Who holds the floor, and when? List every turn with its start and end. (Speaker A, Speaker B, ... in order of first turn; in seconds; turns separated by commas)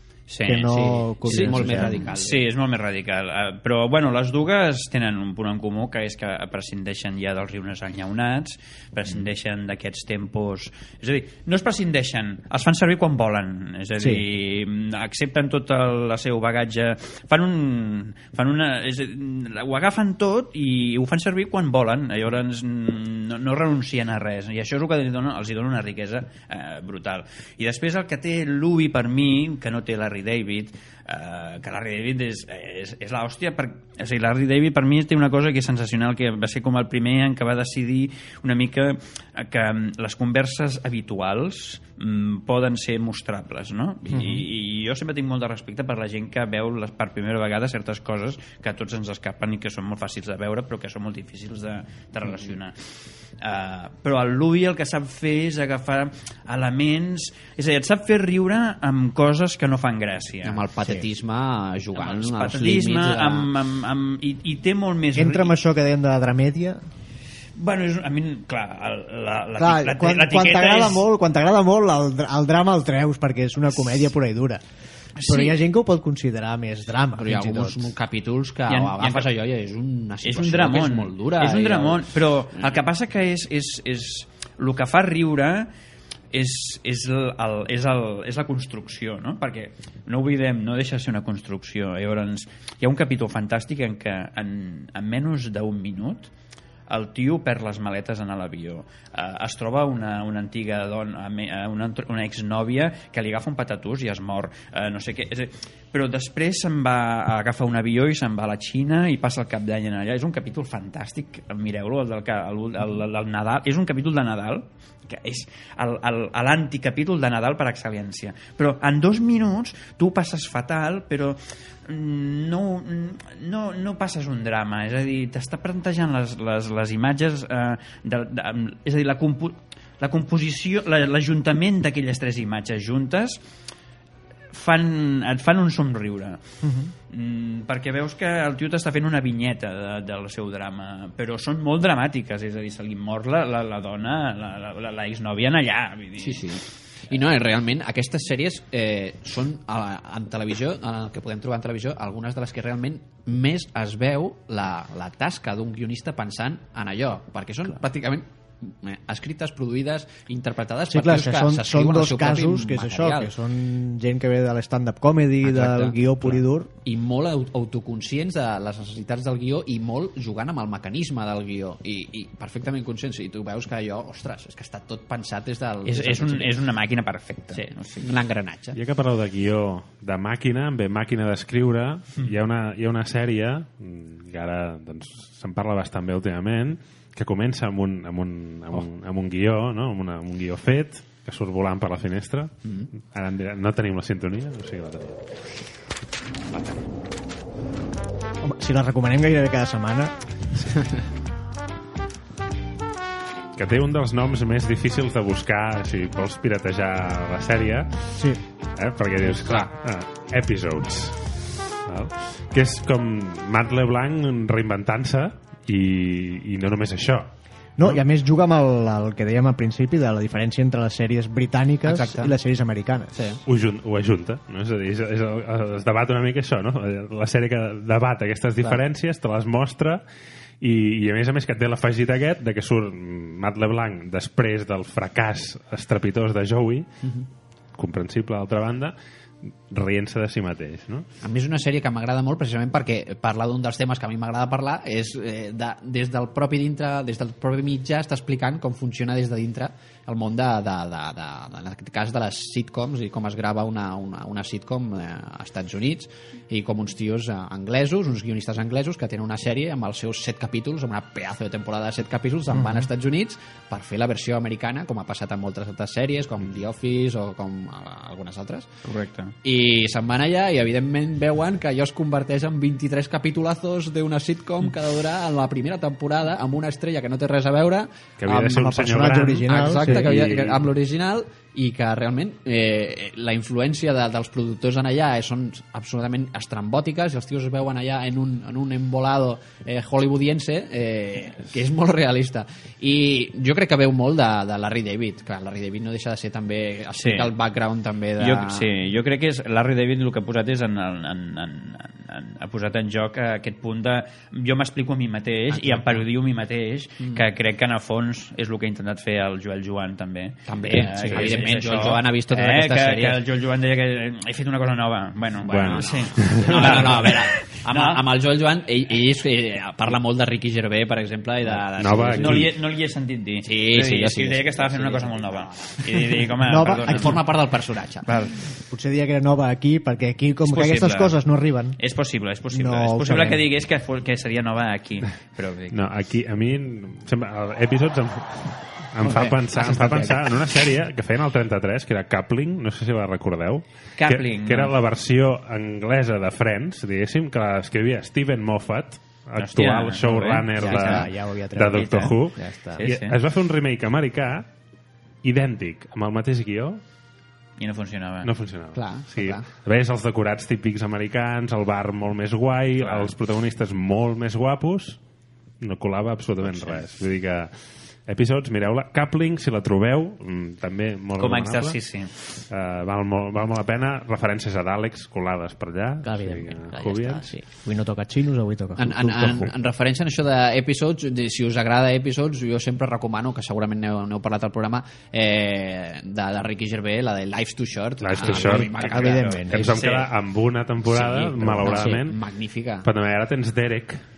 Speaker A: 0.3-52.8, Speaker B: 0.4-2.1, Speaker C: 0.7-2.5, Speaker B: 14.0-14.2, Speaker C: 52.2-52.5, Speaker A: 53.4-60.6, Speaker C: 60.4-63.5, Speaker A: 61.9-65.5, Speaker B: 65.1-66.8, Speaker A: 67.6-71.0, Speaker B: 69.6-74.6, Speaker A: 75.2-75.6, Speaker B: 75.3-77.9, Speaker C: 77.2-82.8, Speaker A: 78.7-79.3, Speaker A: 80.2-85.7, Speaker A: 86.3-96.3, Speaker A: 96.9-133.4, Speaker A: 134.5-136.4, Speaker B: 136.6-136.9, Speaker A: 137.1-146.4, Speaker C: 146.2-163.3, Speaker B: 160.9-166.7, Speaker C: 165.4-176.6, Speaker A: 175.8-178.1, Speaker C: 177.5-178.8, Speaker D: 178.7-195.2, Speaker B: 198.4-200.1, Speaker D: 203.6-208.2, Speaker B: 208.1-208.4, Speaker D: 208.8-211.2, Speaker C: 209.2-209.7, Speaker D: 211.9-218.0, Speaker B: 217.8-223.1, Speaker C: 221.8-222.3, Speaker C: 223.1-223.4, Speaker D: 223.4-230.0, Speaker D: 230.6-236.9, Speaker D: 237.8-238.9, Speaker D: 239.7-241.1, Speaker C: 241.2-268.7, Speaker B: 262.5-262.9, Speaker A: 268.8-269.3, Speaker C: 269.4-278.8, Speaker D: 278.2-280.6, Speaker B: 278.4-280.1, Speaker C: 279.4-298.7, Speaker A: 296.9-297.3, Speaker A: 298.2-318.0, Speaker C: 305.5-306.0, Speaker C: 310.4-313.2, Speaker B: 310.9-311.4, Speaker C: 315.4-322.5, Speaker D: 315.5-317.1, Speaker D: 321.8-322.5, Speaker A: 322.2-327.2, Speaker C: 323.4-328.1, Speaker B: 326.4-327.3, Speaker B: 328.7-331.8, Speaker A: 330.4-331.2, Speaker A: 331.8-335.8, Speaker B: 332.5-333.4, Speaker D: 335.7-354.5, Speaker C: 339.0-340.3, Speaker A: 344.0-344.7, Speaker A: 349.4-351.1, Speaker B: 350.6-352.8, Speaker A: 351.7-352.2, Speaker A: 352.8-353.1, Speaker D: 355.2-356.8, Speaker A: 357.6-358.3, Speaker D: 358.2-365.0, Speaker C: 358.7-359.4, Speaker A: 362.8-363.1, Speaker D: 365.6-367.5, Speaker A: 366.4-366.8, Speaker D: 368.1-371.8, Speaker A: 371.2-372.4, Speaker D: 372.5-377.3, Speaker B: 376.0-379.5, Speaker C: 378.8-390.0, Speaker D: 388.0-392.2, Speaker B: 388.2-389.7, Speaker A: 389.1-390.0, Speaker C: 390.9-392.9, Speaker B: 391.6-392.0, Speaker D: 392.8-394.0